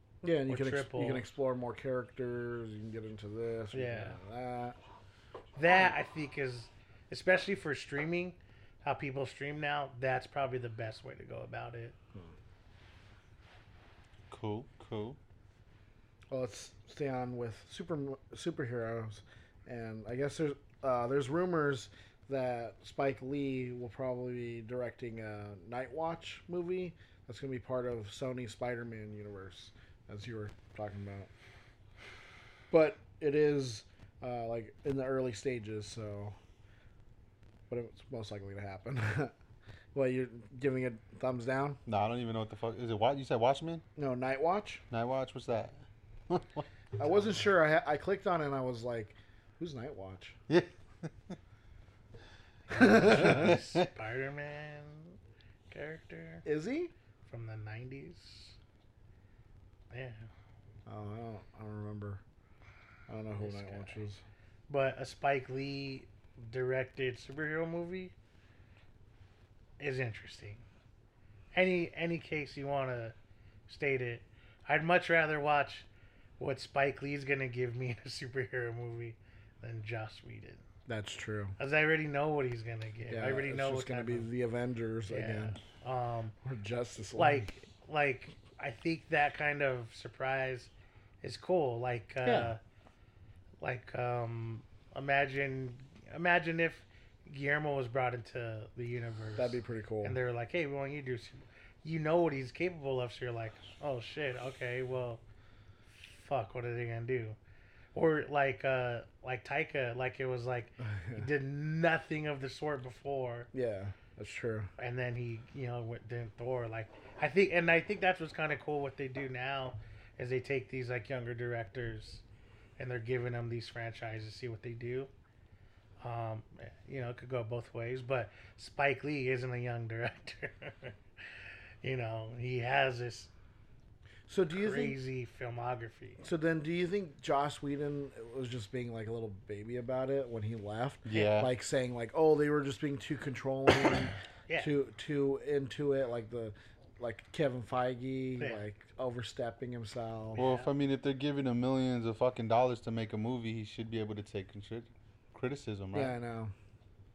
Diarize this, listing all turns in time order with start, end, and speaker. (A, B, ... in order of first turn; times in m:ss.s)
0:00.2-0:04.8 A
0:00.5-0:01.2 B
0:03.7-0:04.2 B
0:05.6-0:12.0 B
0:14.3-0:15.2 C
0:16.3-0:31.3 A
0:32.7-0:36.3 A
0:37.7-0:39.3 A
0:39.9-0:41.8 A
0:41.9-0:43.8 C
0:44.0-0:44.8 A
0:44.9-0:46.6 C
0:47.0-0:50.4 A
0:50.5-0:51.3 C
0:52.7-0:55.2 B
0:52.8-0:53.5 A
0:53.1-0:53.8 C
0:55.7-0:56.4 B
0:56.4-0:56.9 A
0:57.2-0:58.6 B
0:59.9-1:00.3 B
1:00.8-1:02.2 A
1:03.1-1:04.2 A
1:03.4-1:04.0 B
1:04.7-1:08.1 B
1:09.8-1:10.6 B
1:11.5-1:13.1 B
1:13.7-1:15.9 B
1:16.4-1:20.6 B
1:20.9-1:21.6 A
1:21.6-1:24.3 B
1:23.1-1:25.6 A
1:25.1-1:26.3 B
1:26.4-1:27.5 A
1:27.2-1:30.7 B
1:31.2-1:32.6 B
1:32.2-1:32.5 A
1:33.6-1:45.2 B
1:39.4-1:40.2 A
1:46.0-1:47.4 B
1:47.9-1:53.5 B
1:50.8-1:51.2 A
1:53.5-1:54.7 A
1:54.8-2:02.2 B
2:02.8-2:05.1 B
2:06.0-2:11.0 B
2:11.8-2:13.3 B
2:14.3-2:15.0 A
2:14.5-2:16.2 B
2:16.2-2:30.4 A
2:21.0-2:21.5 C
2:21.1-2:21.4 B
2:24.5-2:24.7 B
2:28.4-2:28.6 B
2:30.3-2:30.7 B
2:30.4-2:36.1 C
2:35.9-2:36.5 A